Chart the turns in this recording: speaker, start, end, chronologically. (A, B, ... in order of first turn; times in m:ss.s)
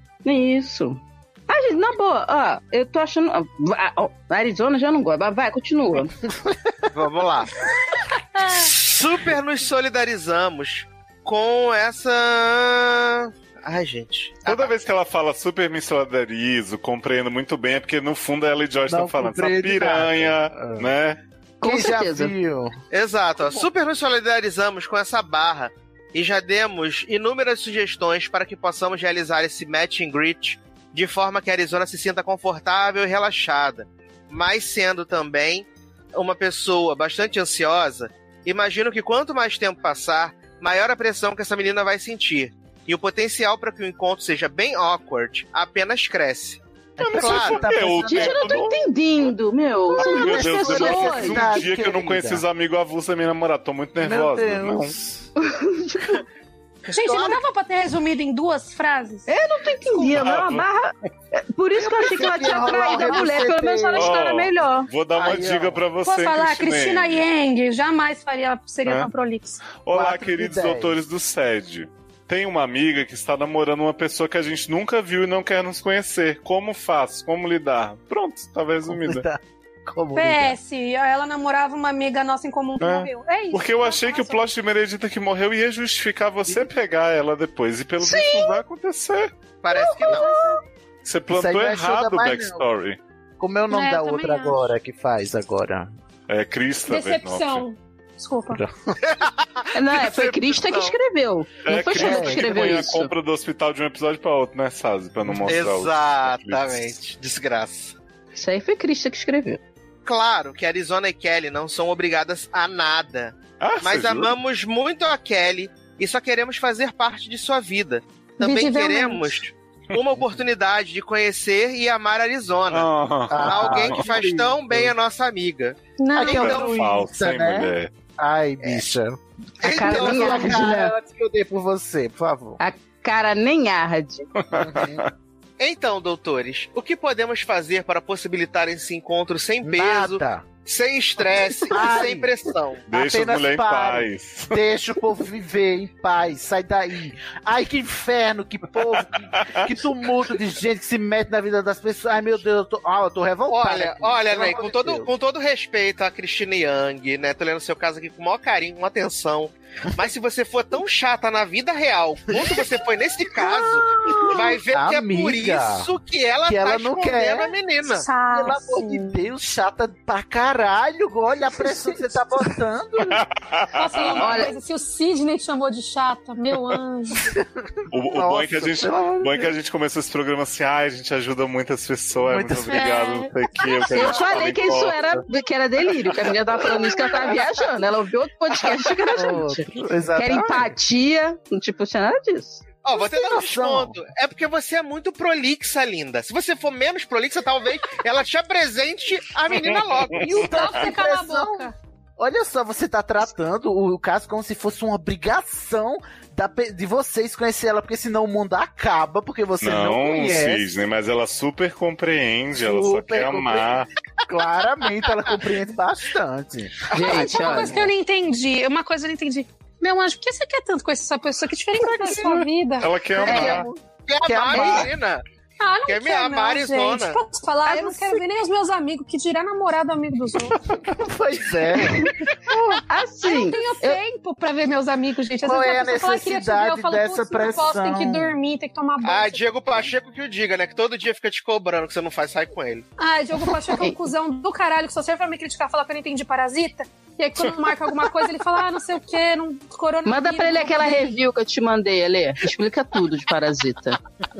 0:00.2-0:06.1 A
0:06.9-0:07.6 B
0:08.5-0:14.8 B
0:14.4-0:21.2 C
0:18.9-0:20.9 D
0:21.6-0:22.3 A
0:21.6-0:22.7 D
0:22.9-0:46.6 B
0:47.0-0:48.6 D
0:47.0-0:48.8 C
0:47.1-0:47.6 B
0:48.0-0:51.4 A
0:50.0-0:54.9 C
0:50.0-0:52.4 D
0:54.0-0:55.3 D
0:55.4-0:56.2 A
0:56.9-0:57.4 B
0:56.9-0:59.3 E
0:59.3-1:04.9 A
1:00.2-1:00.7 C
1:01.8-1:04.2 D
1:02.4-1:03.3 E
1:03.9-1:07.2 C
1:05.1-1:05.8 D
1:06.0-1:09.6 E
1:08.8-1:09.1 C
1:09.7-1:19.3 C
1:09.9-1:11.0 D
1:18.8-1:20.6 D
1:20.1-1:24.4 E
1:22.8-1:29.3 C
1:28.0-1:28.6 A
1:29.6-1:30.3 B
1:29.7-1:30.6 A
1:31.0-1:33.0 C
1:31.3-1:32.6 D
1:33.4-1:35.9 D
1:33.7-1:34.7 E
1:36.3-1:37.6 C
1:36.9-1:38.6 E
1:38.5-1:39.0 D
1:39.1-1:40.9 B
1:39.7-1:43.1 A
1:41.6-1:46.9 C
1:41.9-1:42.6 D
1:45.2-1:45.6 D
1:45.5-1:47.9 B
1:48.3-1:49.6 A
1:50.0-2:02.9 B
1:53.6-1:54.3 C
1:58.4-1:59.4 E
2:02.7-2:04.0 C
2:03.3-2:04.9 D
2:03.4-2:05.8 B
2:06.0-2:06.7 E
2:06.1-2:12.6 D
2:06.2-2:07.9 C
2:09.6-2:10.9 A
2:12.6-2:14.3 A
2:14.4-2:15.1 C
2:14.5-2:15.0 D
2:15.6-2:22.8 B
2:19.6-2:20.5 D
2:21.7-2:22.3 D
2:22.9-2:24.6 C
2:22.9-2:35.1 D
2:29.4-2:29.7 C
2:33.5-2:48.1 B
2:42.4-2:42.6 D
2:43.4-2:45.9 D
2:46.5-2:47.5 D
2:47.9-2:49.2 E
2:48.2-2:53.2 D
2:53.1-2:54.4 C
2:53.7-2:57.2 E
2:54.2-2:54.5 A
2:57.2-2:59.5 D
2:57.9-3:05.1 C
3:02.2-3:02.9 D
3:02.7-3:04.1 E
3:03.9-3:12.6 A
3:09.1-3:10.7 D
3:12.8-3:20.4 B
3:13.0-3:14.0 D
3:20.1-3:20.9 C
3:20.2-3:30.7 D
3:20.3-3:21.7 E
3:29.6-3:33.9 C
3:32.6-3:37.9 D
3:36.9-3:37.8 A
3:37.1-3:42.9 E
3:42.0-3:42.3 D
3:42.2-3:43.7 C
3:43.2-3:44.9 D
3:43.2-3:43.7 A
3:44.1-3:45.2 B
3:44.5-3:44.8 A
3:45.6-3:50.6 E
3:45.8-3:47.2 B
3:47.6-3:48.2 A
3:50.7-3:52.6 D
3:51.8-3:52.1 A
3:52.9-3:54.0 A
3:53.2-3:59.6 E
3:55.4-3:58.4 D
3:59.0-4:02.8 B
4:03.0-4:11.1 E
4:10.0-4:14.0 A